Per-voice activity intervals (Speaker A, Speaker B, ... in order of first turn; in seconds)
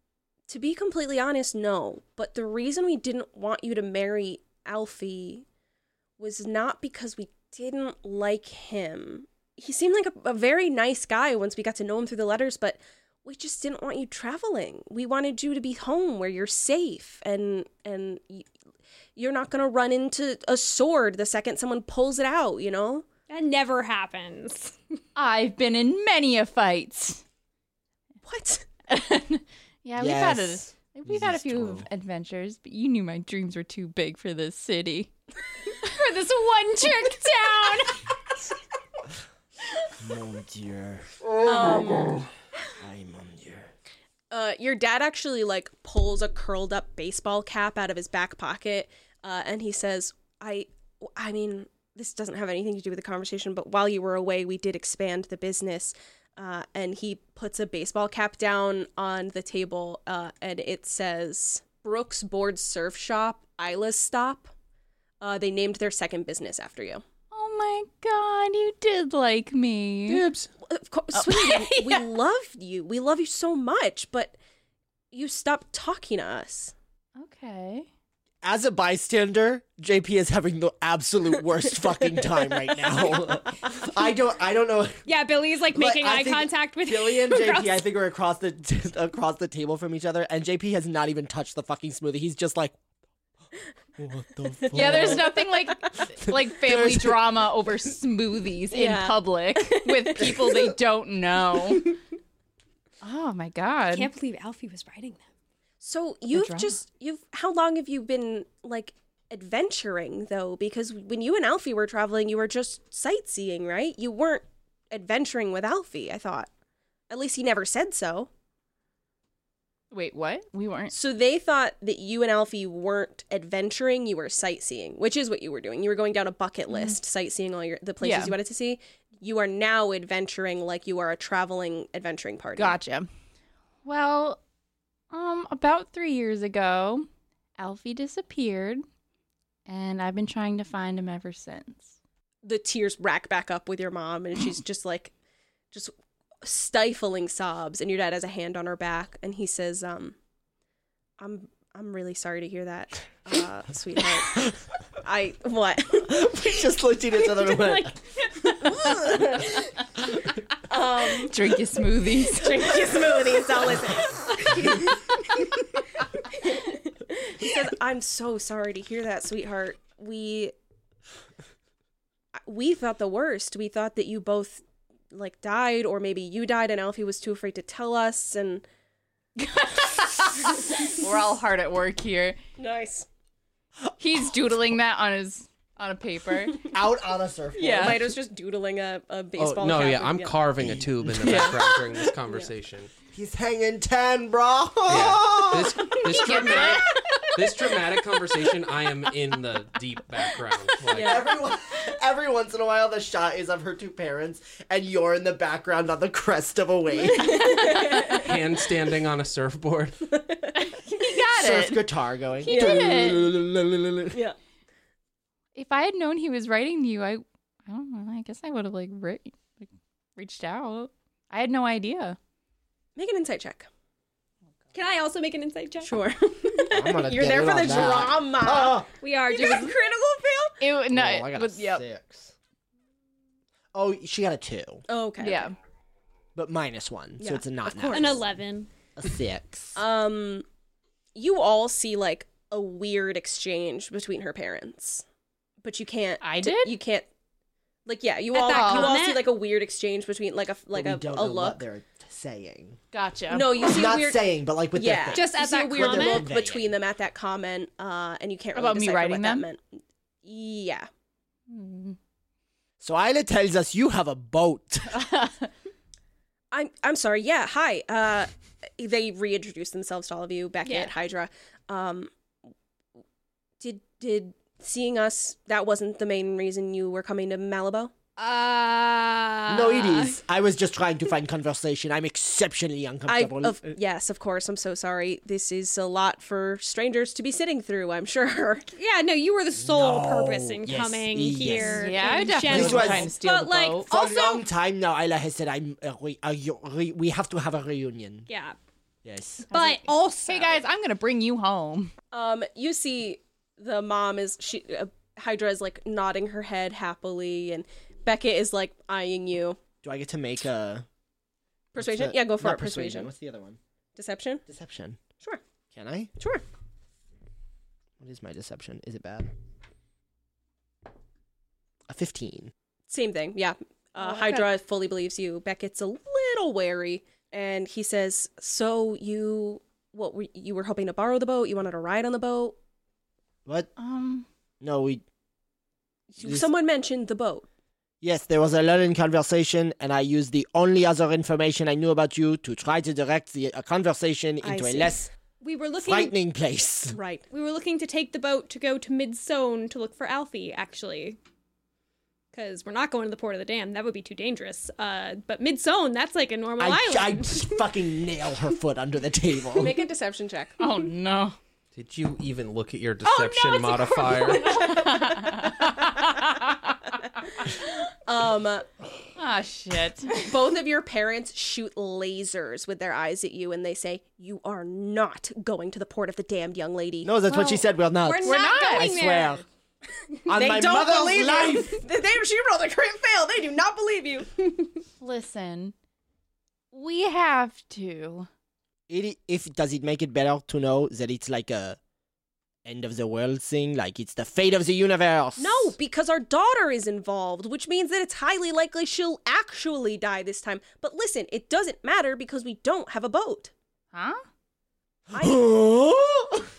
Speaker A: 0.5-5.4, 6.2-18.5, 19.1-23.0, 28.2-28.7, 41.4-42.3, 44.3-64.5, 65.2-67.0, 70.6-74.3, 75.1-76.7, 82.9-83.3, 98.7-100.7, 105.8-116.5, 117.1-118.3, 120.9-132.8, 142.4-145.1, 146.4-150.2, 151.2-156.7, 158.5-159.7, 160.6-161.5, 162.2-165.4, 166.4-170.5, 172.3-178.6, 182.6-183.1, 187.6-190.4, 195.8-197.3, 200.9-201.3, 207.1-208.3, 210.1-210.6, 212.4-213.2, 222.9-223.7, 225.8-230.6, 234.9-235.5, 237.2-238.2, 239.7-240.4, 241.1-245.0, 245.6-247.1, 247.8-251.6, 253.3-260.9, 266.5-272.1, 273.6-277.9, 283.1-288.7, 293.5-294.2, 302.1-309.6, 311.7-313.1, 313.9-314.4, 316.2-316.4, 322.9-332.6, 336.1-337.5, 344.4-345.0, 346.9-347.2, 359.6-360.6, 368.1-368.7, 370.1-377.1, 380.2-384.3, 395.4-403.5, 405.1-405.5
Speaker B: 23.3-24.8, 35.8-38.0, 85.0-87.8, 103.9-105.2, 157.5-158.7, 224.7-226.0, 229.0-229.8, 237.9-238.7, 248.3-249.3, 255.1-256.2, 278.2-280.2, 288.7-294.4, 298.3-298.6, 299.5-300.6, 345.4-346.1, 347.3-351.2, 352.3-357.7, 363.0-365.3, 378.0-379.4
Speaker C: 25.1-27.2, 28.9-35.1, 67.3-70.3, 71.1-72.1, 77.2-77.9, 94.7-102.0, 103.0-104.1, 106.3-106.8, 119.9-120.9, 126.7-127.0, 128.0-128.3, 132.6-133.1, 133.8-134.4, 135.1-138.8, 139.7-141.9, 161.2-163.4, 179.4-182.4, 184.0-186.7, 187.5-188.1, 191.2-191.7, 196.1-196.9, 210.5-211.9, 212.4-213.2, 215.5-222.2, 230.6-231.8, 235.2-235.5, 246.2-246.7, 248.5-249.0, 252.9-253.5, 258.5-259.4, 261.5-262.0, 264.9-265.5, 291.6-293.9, 299.5-301.9, 324.0-324.4, 333.8-334.3, 360.6-361.4, 364.4-366.4, 369.1-370.3, 377.3-377.6, 378.2-379.0, 385.0-385.7, 386.7-388.3, 403.9-404.2
Speaker D: 30.0-31.9, 40.0-41.2, 42.7-43.7, 78.4-85.0, 85.7-92.8, 94.0-95.5, 96.1-97.4, 156.0-158.0, 186.6-188.1, 190.6-192.1, 193.1-196.0, 200.9-207.7, 211.3-214.2, 226.6-228.9, 230.9-232.3, 233.7-234.8, 236.3-238.2, 238.9-239.8, 250.7-252.8, 253.6-256.7, 262.8-265.1, 279.5-283.8, 289.6-293.1, 293.9-298.3, 299.0-299.5, 309.8-310.9, 311.8-313.6, 314.4-315.0, 315.7-316.1, 318.0-319.3, 321.9-322.5, 334.6-335.0, 336.2-336.5, 338.0-345.1, 345.8-347.0, 356.6-359.8, 377.0-379.4, 380.2-381.8, 388.9-391.8, 392.6-395.7, 405.1-406.5
Speaker E: 70.1-70.5, 189.4-192.9, 194.9-201.2, 208.0-210.1, 361.7-364.6